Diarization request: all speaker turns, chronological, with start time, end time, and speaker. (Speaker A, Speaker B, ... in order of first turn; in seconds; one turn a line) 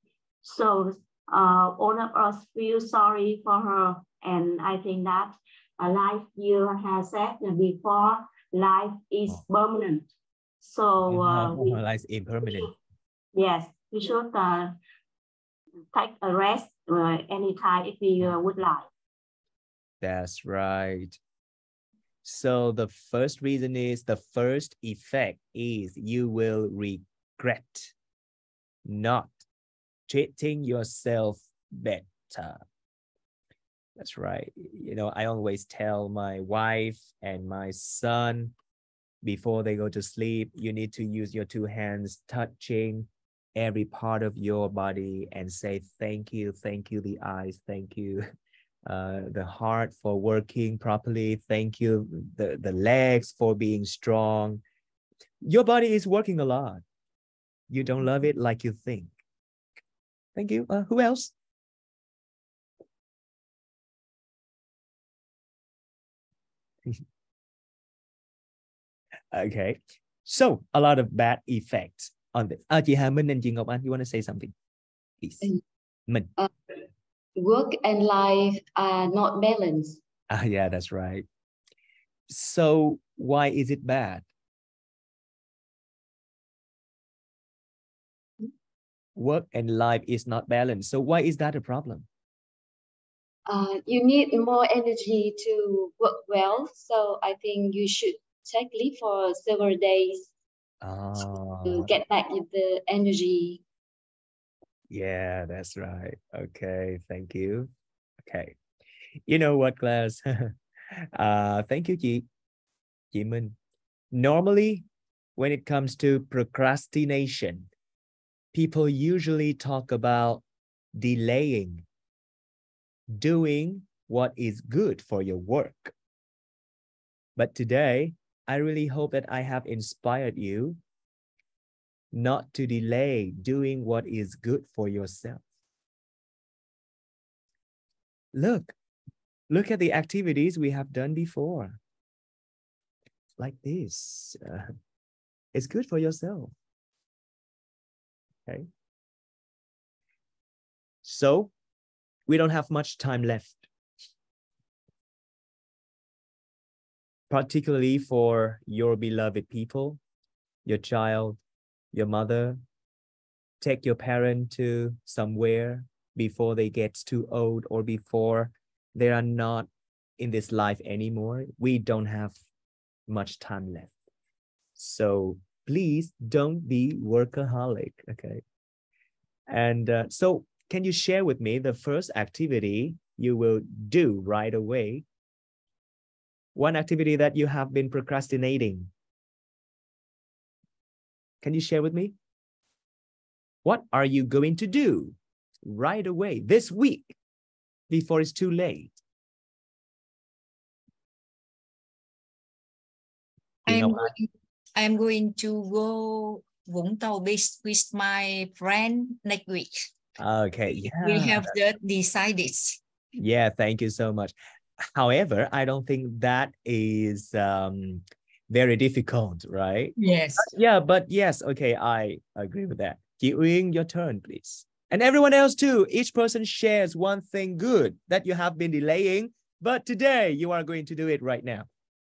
Speaker A: 0.4-10.1
Speaker A: 10.6-11.8
Speaker B: 11.1-12.7
Speaker A: 12.5-12.7
Speaker A: 13.3-14.8
Speaker A: 15.9-18.9
Speaker B: 20.0-21.2
Speaker B: 22.2-27.9
Speaker B: 28.9-29.3
Speaker B: 30.1-32.6
Speaker B: 34.0-38.5
Speaker B: 39.2-48.2
Speaker B: 48.9-54.6
Speaker B: 55.4-56.8
Speaker B: 57.7-59.1
Speaker B: 60.4-61.3
Speaker B: 69.3-74.5
Speaker B: 75.2-75.5
Speaker C: 77.4-80.0
Speaker B: 80.3-81.3
Speaker B: 82.3-84.2
Speaker B: 89.2-92.1
Speaker C: 93.5-100.3
Speaker B: 100.8-101.9
Speaker C: 101.7-103.6
Speaker B: 104.9-107.7
Speaker B: 108.2-108.5
Speaker B: 109.3-110.5
Speaker B: 111.1-112.3
Speaker B: 113.1-113.6
Speaker B: 114.1-114.8
Speaker B: 115.4-117.7
Speaker B: 118.5-120.4
Speaker B: 121.0-121.8
Speaker B: 123.1-125.9
Speaker B: 127.4-130.8
Speaker B: 132.1-135.4
Speaker B: 138.3-138.7
Speaker B: 139.5-141.8
Speaker B: 143.4-144.7
Speaker B: 145.5-146.5
Speaker B: 151.0-151.5
Speaker B: 152.3-153.7
Speaker B: 157.3-160.0
Speaker B: 160.7-161.4
Speaker B: 161.9-162.6
Speaker B: 163.6-172.4
Speaker B: 173.1-173.9
Speaker B: 174.8-178.4
Speaker B: 179.5-185.0
Speaker B: 186.6-188.9
Speaker B: 191.4-192.2
Speaker B: 193.7-197.2
Speaker B: 197.9-198.9
Speaker B: 203.7-204.1
Speaker D: 203.7-209.9
Speaker B: 210.2-211.5
Speaker D: 210.8-212.8
Speaker B: 213.2-231.7
Speaker D: 220.0-220.5